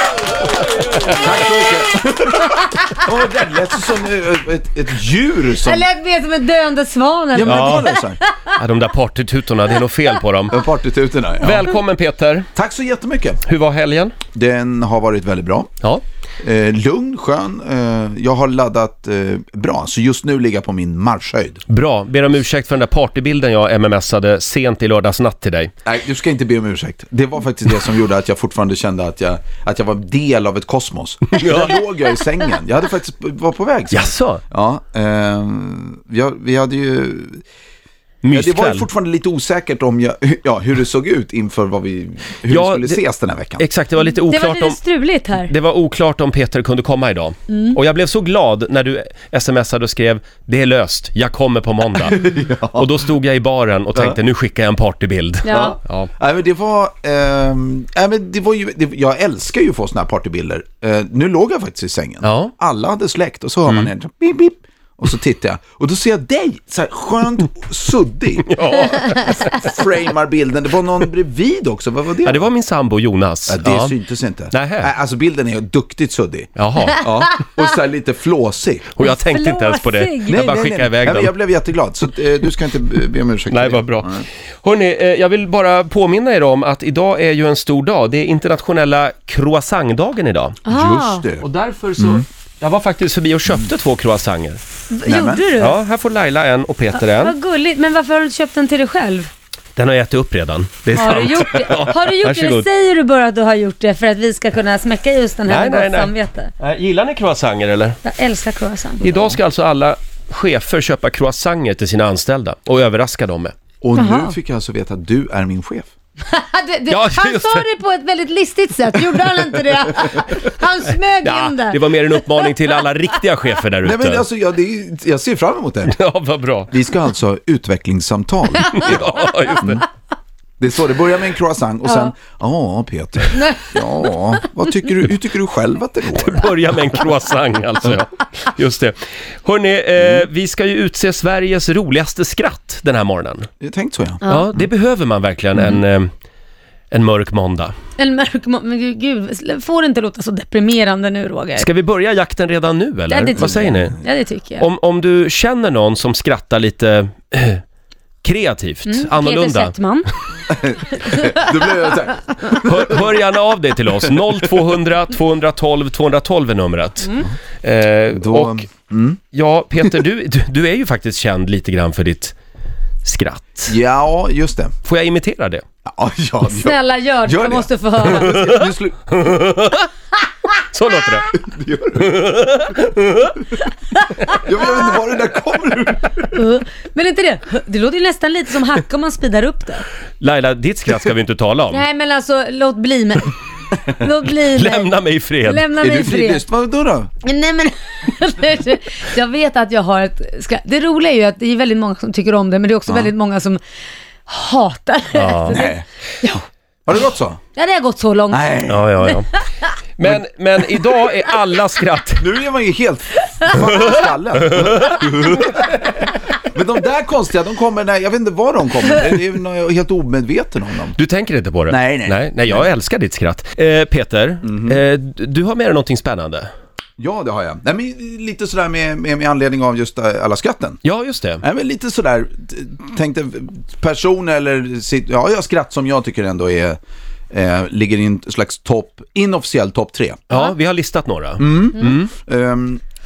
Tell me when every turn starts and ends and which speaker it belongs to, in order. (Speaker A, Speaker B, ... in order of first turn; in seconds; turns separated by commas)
Speaker A: 0.9-1.1, Speaker B: 1.1-5.9, Speaker C: 5.6-7.8, Speaker B: 7.3-8.2, Speaker A: 7.4-7.9, Speaker A: 8.6-10.6, Speaker B: 10.5-11.7, Speaker A: 11.4-12.5, Speaker B: 12.5-13.4, Speaker A: 13.4-14.2, Speaker B: 14.3-15.7, Speaker B: 16.4-21.6, Speaker A: 21.7-25.7, Speaker B: 25.8-37.4, Speaker A: 31.3-31.8, Speaker A: 33.9-34.4, Speaker A: 38.2-38.9, Speaker B: 38.3-43.7, Speaker A: 42.5-43.0, Speaker A: 43.6-44.8, Speaker C: 44.2-45.5, Speaker A: 45.3-56.1, Speaker C: 47.5-47.7, Speaker B: 52.1-52.9, Speaker C: 55.4-55.7, Speaker B: 55.5-72.5, Speaker A: 62.2-62.5, Speaker A: 68.5-69.8, Speaker A: 72.2-74.0, Speaker B: 73.5-78.9, Speaker A: 74.5-74.9, Speaker A: 76.5-77.1, Speaker A: 79.0-81.3, Speaker C: 79.0-80.3, Speaker B: 80.3-84.2, Speaker A: 83.5-90.6, Speaker C: 90.7-91.2, Speaker B: 90.7-91.4, Speaker A: 91.4-94.6, Speaker B: 92.0-92.2, Speaker C: 94.9-95.8, Speaker B: 95.0-95.4, Speaker A: 95.6-97.3, Speaker C: 97.0-99.3, Speaker A: 99.8-102.7, Speaker C: 100.9-106.5, Speaker A: 105.5-108.0, Speaker C: 108.0-109.3, Speaker A: 109.0-113.5, Speaker B: 113.8-115.9, Speaker C: 113.9-114.3, Speaker C: 116.3-122.5, Speaker A: 116.9-117.7, Speaker A: 119.0-119.6, Speaker A: 121.2-124.2, Speaker B: 123.8-126.0, Speaker A: 125.9-126.7, Speaker B: 126.7-129.8, Speaker A: 128.6-129.8, Speaker B: 130.6-136.5, Speaker A: 136.2-143.5, Speaker B: 140.0-140.3, Speaker B: 143.6-144.6, Speaker A: 144.2-146.1, Speaker B: 145.6-145.8, Speaker A: 146.9-147.7, Speaker C: 148.0-151.7, Speaker A: 151.6-154.0, Speaker C: 153.1-154.7, Speaker B: 153.3-154.0, Speaker A: 154.6-157.6, Speaker A: 158.2-159.8, Speaker C: 158.8-160.1, Speaker B: 160.5-163.1, Speaker A: 162.6-168.6, Speaker B: 168.1-169.2, Speaker A: 169.3-172.3, Speaker A: 173.0-173.7, Speaker B: 173.7-174.7, Speaker A: 174.8-175.6, Speaker B: 175.8-179.0, Speaker C: 176.5-178.2, Speaker A: 178.1-179.9, Speaker A: 180.5-181.4, Speaker B: 181.3-182.2, Speaker A: 182.0-183.4, Speaker B: 184.3-186.4, Speaker C: 186.3-189.8, Speaker A: 190.2-191.8, Speaker C: 191.7-193.3, Speaker C: 193.9-196.4, Speaker A: 194.5-195.7, Speaker B: 195.8-197.1, Speaker C: 197.2-203.6, Speaker B: 202.9-203.1, Speaker C: 204.3-205.7, Speaker A: 205.1-205.6, Speaker B: 205.5-205.8, Speaker B: 206.8-207.4, Speaker C: 207.6-209.2, Speaker B: 208.3-208.9, Speaker A: 208.7-209.3, Speaker A: 210.0-212.2, Speaker B: 212.2-221.0, Speaker A: 213.8-215.3, Speaker A: 220.9-226.5, Speaker B: 221.7-222.7, Speaker B: 224.4-224.8, Speaker B: 227.0-230.8, Speaker A: 230.8-231.4, Speaker B: 231.4-236.8, Speaker B: 237.3-240.3, Speaker A: 240.3-242.1, Speaker B: 241.4-242.8